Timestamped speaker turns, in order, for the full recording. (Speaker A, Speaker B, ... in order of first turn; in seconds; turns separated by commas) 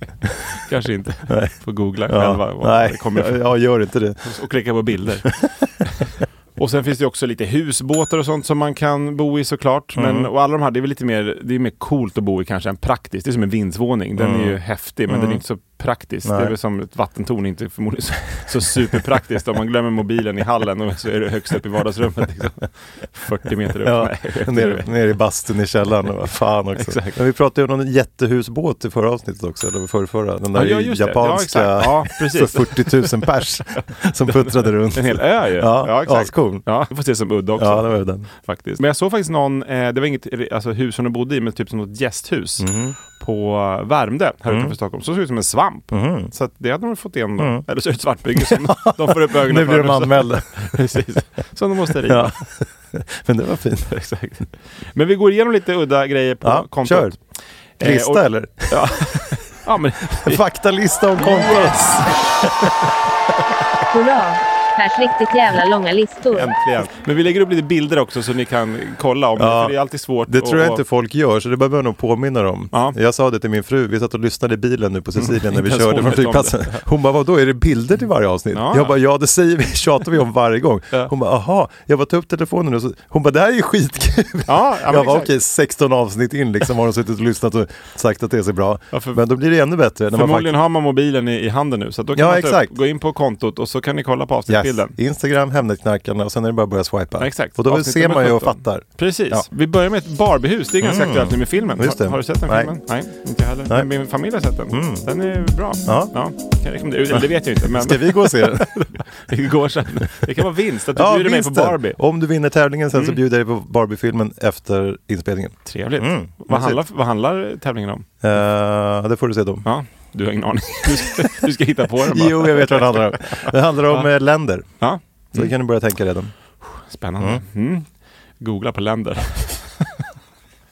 Speaker A: 0.5-3.4, Speaker B: 1.3-1.5, Speaker B: 2.1-4.3, Speaker A: 4.2-24.9, Speaker B: 9.9-10.3, Speaker B: 14.2-15.4, Speaker B: 16.2-16.5, Speaker B: 23.8-36.7, Speaker A: 26.8-27.2, Speaker A: 30.5-52.3, Speaker B: 37.6-38.3, Speaker B: 42.6-43.0, Speaker B: 44.5-44.8, Speaker B: 45.9-46.3, Speaker B: 47.4-47.7, Speaker B: 48.4-50.8, Speaker B: 52.0-53.9, Speaker A: 53.9-57.2, Speaker B: 56.4-57.2, Speaker A: 57.8-60.4, Speaker B: 57.8-59.0, Speaker B: 60.1-62.6, Speaker A: 61.2-62.7, Speaker C: 63.9-66.5, Speaker A: 66.3-70.8, Speaker B: 69.4-90.5, Speaker A: 75.2-76.8, Speaker A: 78.5-78.9, Speaker A: 84.5-85.3, Speaker A: 88.9-89.2, Speaker A: 90.1-94.9, Speaker B: 92.1-92.7, Speaker B: 94.5-99.5, Speaker A: 97.2-112.0, Speaker B: 100.8-102.8, Speaker B: 104.7-105.1, Speaker B: 105.8-106.1, Speaker B: 107.1-108.9, Speaker B: 110.9-116.8, Speaker A: 115.6-118.1, Speaker B: 118.2-119.7, Speaker A: 119.6-124.1, Speaker B: 122.0-124.8, Speaker A: 124.8-125.5, Speaker B: 125.3-126.3, Speaker A: 126.6-127.9, Speaker A: 128.4-129.8